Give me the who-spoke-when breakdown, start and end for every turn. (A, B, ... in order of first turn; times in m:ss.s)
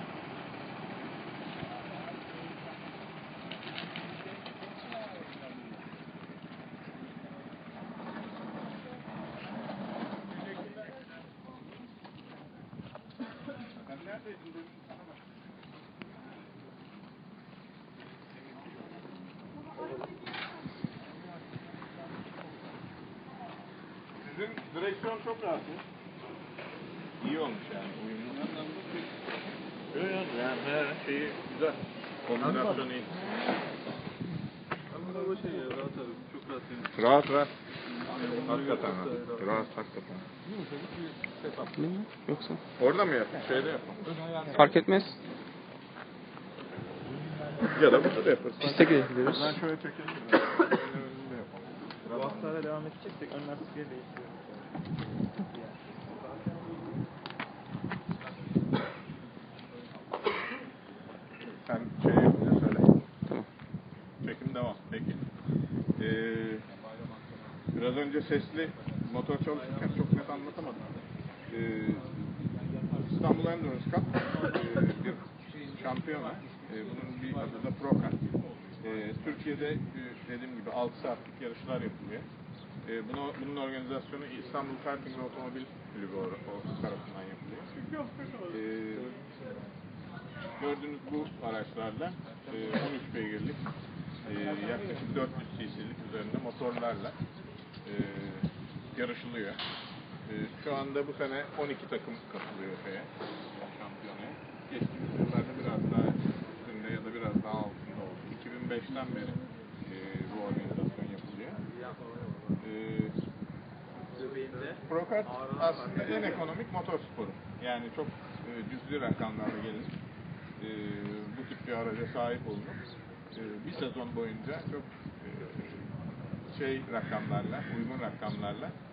0:24.2-0:25.8 A
0:27.2-0:28.9 A
0:29.9-0:33.1 A
0:35.0-0:36.6 B
0:36.8-0:37.5 A
0:38.2-0:40.3 A
0:41.7-0:42.6 C
0:42.8-0:44.2 A
0:44.5-0:45.1 C
0:47.6-0:52.6 A
0:48.6-0:49.5 C
0:52.3-0:54.6 B
1:01.6-1:02.9 A
1:04.2-1:05.2 A
1:06.0-1:06.6 A
1:07.7-1:10.8 A
1:11.5-1:12.2 A
1:13.0-1:18.2 A
1:18.8-1:22.2 A
1:22.8-1:27.7 A
1:28.4-1:29.1 A
1:30.6-1:33.6 A
1:34.2-1:37.1 A
1:37.8-1:39.6 A
1:40.2-1:51.6 A
1:52.6-1:53.1 A
1:54.8-1:59.9 A
2:00.6-2:02.8 A
2:03.3-2:05.9 A
2:06.5-2:08.8 A